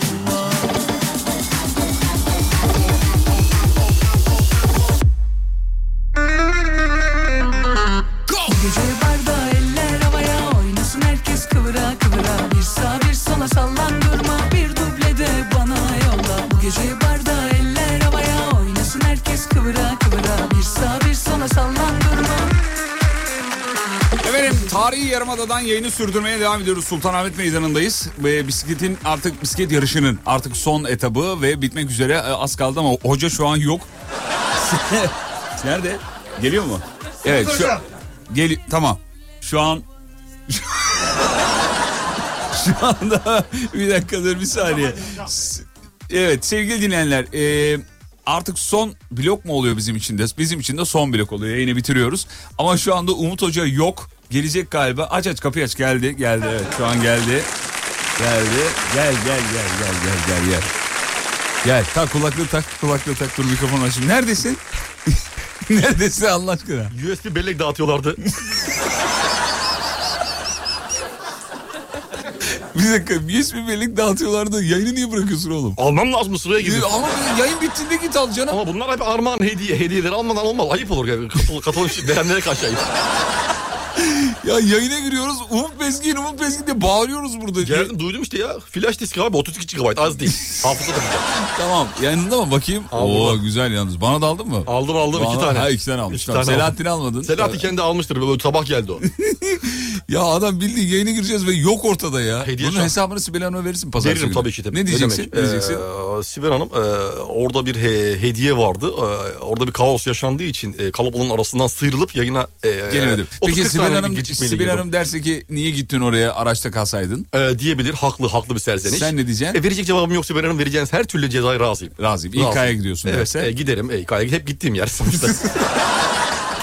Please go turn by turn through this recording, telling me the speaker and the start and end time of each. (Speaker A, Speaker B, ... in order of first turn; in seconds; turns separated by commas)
Speaker A: 8.4-22.5, Speaker B: 24.2-33.9, Speaker B: 34.5-39.9, Speaker B: 40.5-41.4, Speaker B: 42.5-57.5, Speaker B: 58.2-60.7, Speaker B: 61.6-66.9, Speaker C: 66.9-68.2, Speaker B: 72.5-75.8, Speaker C: 75.8-76.9, Speaker B: 76.6-78.6, Speaker C: 78.5-82.8, Speaker B: 84.0-87.9, Speaker C: 87.6-91.3, Speaker B: 91.4-97.7, Speaker C: 92.9-93.4, Speaker C: 94.7-99.0, Speaker B: 99.0-105.8, Speaker C: 102.4-102.9, Speaker C: 104.0-114.9, Speaker B: 112.9-117.2, Speaker C: 117.3-125.5, Speaker B: 118.8-119.6, Speaker B: 122.0-123.5